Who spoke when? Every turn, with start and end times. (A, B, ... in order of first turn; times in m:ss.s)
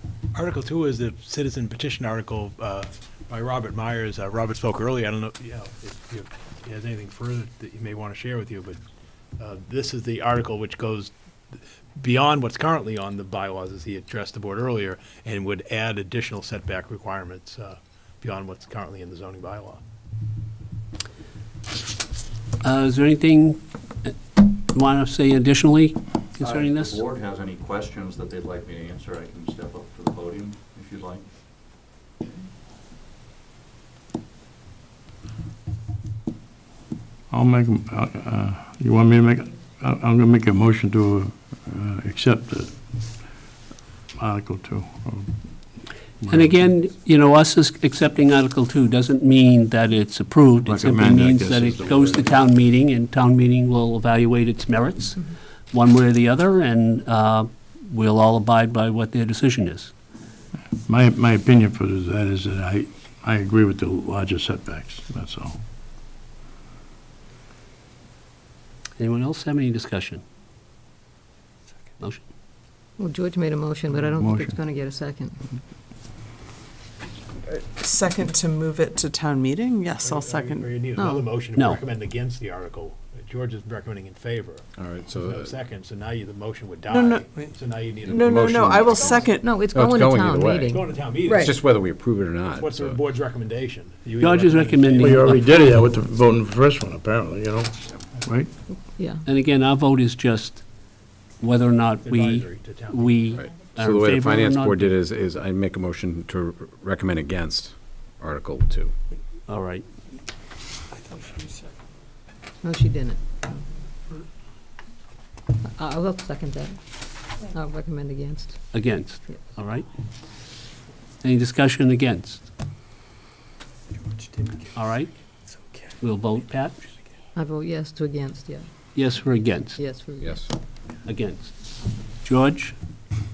0:00.3-0:08.8 A
0:09.4-0:19.8 A
0:22.6-0:24.1 B
0:24.7-0:27.0 B
0:26.4-0:31.2 C
0:37.3-0:43.4 D
0:44.2-0:46.9 D
0:46.3-1:00.0 B
0:50.6-0:52.5 D
1:00.7-1:05.6 D
1:09.0-1:10.2 B
1:12.0-1:12.2 B
1:13.0-1:15.4 E
1:13.9-1:14.6 D
1:17.5-1:20.8 F
1:20.0-1:24.6 A
1:21.0-1:21.3 E
1:24.8-1:25.5 G
1:25.2-1:29.2 A
1:26.9-1:27.4 F
1:28.1-1:29.4 F
1:28.1-1:33.0 G
1:29.2-1:31.0 E
1:30.7-1:31.6 A
1:31.3-1:31.5 F
1:32.5-1:35.4 A
1:34.2-1:35.6 B
1:35.0-1:38.5 D
1:38.9-1:39.2 E
1:39.2-1:40.7 B
1:41.4-1:45.0 B
1:42.0-1:43.4 A
1:43.6-1:48.9 G
1:49.5-1:49.8 B
1:52.6-1:53.2 E
1:55.7-1:56.8 E
1:57.4-1:59.3 E
1:58.7-1:59.9 B
2:01.2-2:02.5 B
2:04.7-2:05.2 B
2:06.0-2:06.9 B
2:07.4-2:09.1 E
2:08.9-2:09.8 B
2:09.8-2:10.4 E
2:10.2-2:10.5 G
2:11.0-2:12.8 B